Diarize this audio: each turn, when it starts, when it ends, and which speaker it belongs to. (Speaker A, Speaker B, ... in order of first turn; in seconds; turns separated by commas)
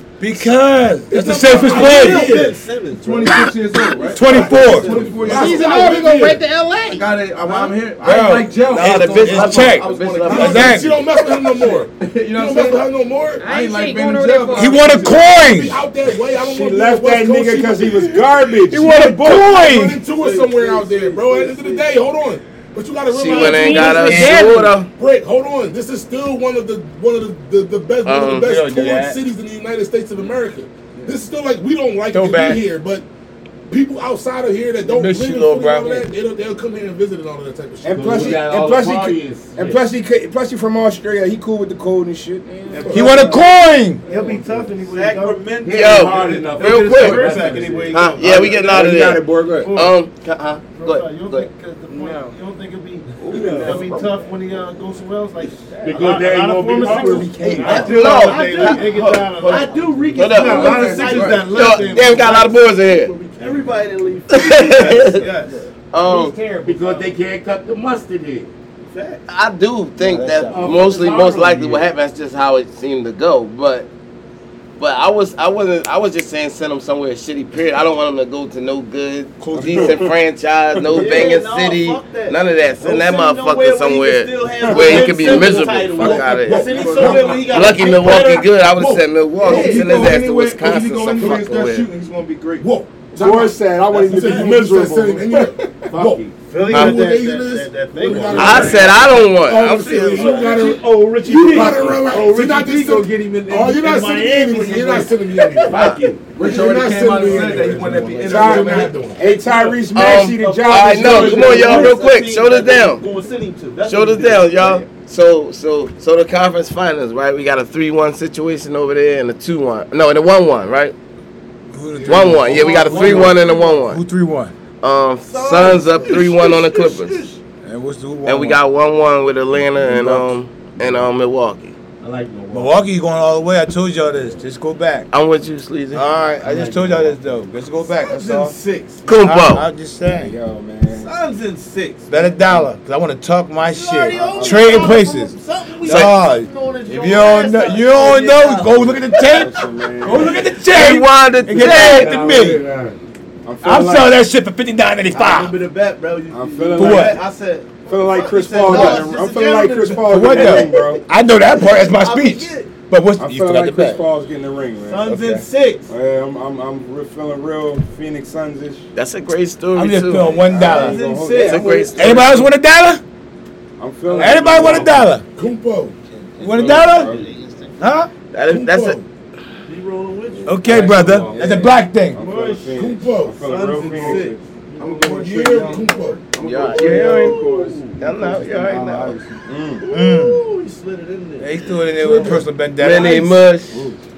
Speaker A: 0.2-2.5, Speaker B: 1.1-2.4, Speaker C: 1.1-3.5, Speaker D: 1.5-5.8, Speaker E: 3.2-4.2, Speaker A: 4.1-4.9, Speaker B: 4.2-6.4, Speaker E: 5.2-7.8, Speaker D: 6.8-11.0, Speaker A: 8.0-11.0, Speaker F: 8.7-11.0, Speaker B: 10.2-13.5, Speaker D: 11.6-12.9, Speaker E: 13.4-15.4, Speaker D: 13.4-15.3, Speaker A: 14.5-15.8, Speaker B: 15.0-18.3, Speaker G: 16.3-19.5, Speaker A: 18.7-20.0, Speaker B: 19.2-33.0, Speaker C: 20.2-21.9, Speaker F: 23.1-24.9, Speaker E: 23.2-24.7, Speaker A: 23.9-24.8, Speaker F: 28.0-28.5, Speaker A: 28.4-29.2, Speaker A: 32.1-32.6, Speaker B: 33.7-38.8, Speaker A: 34.8-36.1, Speaker G: 37.8-43.2, Speaker H: 37.9-39.8, Speaker H: 42.7-48.8, Speaker B: 42.7-43.1, Speaker A: 42.9-44.0, Speaker C: 44.0-48.1, Speaker F: 45.6-47.5, Speaker G: 46.2-49.9, Speaker D: 47.0-47.6, Speaker F: 48.2-51.5, Speaker H: 49.6-50.6, Speaker C: 50.7-65.7, Speaker A: 51.9-52.2, Speaker G: 53.2-54.2, Speaker H: 53.2-54.6, Speaker H: 55.8-62.6, Speaker G: 55.9-58.0, Speaker E: 56.9-58.1, Speaker F: 57.4-58.9, Speaker E: 58.8-59.6, Speaker F: 60.1-61.0, Speaker D: 60.4-61.5, Speaker B: 60.5-61.4, Speaker F: 61.5-63.1, Speaker H: 63.4-63.7, Speaker F: 64.3-65.3, Speaker H: 64.7-65.6, Speaker E: 65.9-67.2, Speaker F: 65.9-66.3, Speaker H: 66.6-68.5, Speaker C: 68.8-69.2, Speaker F: 69.3-73.9, Speaker A: 70.0-70.9, Speaker H: 70.6-71.8, Speaker E: 70.6-71.7, Speaker F: 74.8-91.9, Speaker A: 79.4-80.0, Speaker G: 79.5-80.1, Speaker G: 80.7-81.3, Speaker C: 80.9-88.2, Speaker G: 84.6-85.2, Speaker B: 84.9-91.5, Speaker H: 86.7-87.5, Speaker D: 89.4-92.7, Speaker B: 92.6-109.2, Speaker G: 93.2-95.7, Speaker H: 95.9-99.2, Speaker F: 96.7-97.0, Speaker C: 97.9-98.8, Speaker F: 98.3-100.6, Speaker A: 98.4-98.8, Speaker H: 100.1-108.9, Speaker C: 101.5-101.9, Speaker F: 105.7-106.0, Speaker D: 106.4-109.0, Speaker G: 108.2-112.0, Speaker C: 109.3-114.8, Speaker H: 109.5-109.7, Speaker F: 109.9-113.0, Speaker F: 113.8-120.9, Speaker A: 121.7-124.5, Speaker B: 121.9-123.4, Speaker F: 122.0-124.0, Speaker C: 122.6-123.8, Speaker F: 124.8-127.2, Speaker C: 125.3-127.4, Speaker B: 125.5-126.3, Speaker A: 127.6-128.6, Speaker F: 128.2-131.7, Speaker A: 129.8-130.3, Speaker C: 132.0-132.8, Speaker A: 132.5-135.1, Speaker F: 135.1-136.1, Speaker A: 135.9-138.5, Speaker C: 136.4-137.2, Speaker C: 137.8-139.0, Speaker F: 139.1-139.7, Speaker A: 139.2-140.3, Speaker G: 140.0-141.1, Speaker C: 140.9-142.7, Speaker A: 142.1-152.6, Speaker C: 143.7-149.3, Speaker G: 144.1-145.0, Speaker G: 148.8-150.4, Speaker F: 150.1-152.5, Speaker D: 151.5-153.0, Speaker G: 153.4-154.2, Speaker A: 153.6-155.6, Speaker C: 155.1-161.0, Speaker G: 156.3-157.2, Speaker A: 156.8-157.2, Speaker G: 157.9-161.0, Speaker A: 158.7-159.1, Speaker A: 160.0-164.0, Speaker C: 161.6-162.7, Speaker G: 163.2-168.9, Speaker C: 164.8-165.9, Speaker F: 168.9-170.4, Speaker A: 169.7-171.0, Speaker G: 170.4-172.4, Speaker C: 170.5-172.2, Speaker B: 170.5-170.9, Speaker F: 171.3-172.5, Speaker A: 171.9-173.0, Speaker G: 173.8-175.1, Speaker A: 174.1-175.2, Speaker B: 175.3-176.0, Speaker E: 176.1-177.8, Speaker A: 176.4-177.1, Speaker G: 176.4-177.3, Speaker A: 177.8-178.1, Speaker F: 178.3-179.0, Speaker B: 178.4-179.1, Speaker C: 179.7-182.9, Speaker G: 180.3-184.4, Speaker A: 180.4-182.2, Speaker B: 182.7-184.2, Speaker C: 183.4-188.8, Speaker D: 183.8-184.2, Speaker D: 184.8-189.4, Speaker B: 185.1-186.2, Speaker F: 186.4-187.4, Speaker F: 188.0-189.2, Speaker G: 189.4-189.8, Speaker C: 189.8-192.4, Speaker A: 189.9-190.4, Speaker A: 191.4-193.3, Speaker F: 192.0-193.8, Speaker G: 192.1-192.4, Speaker G: 193.7-194.0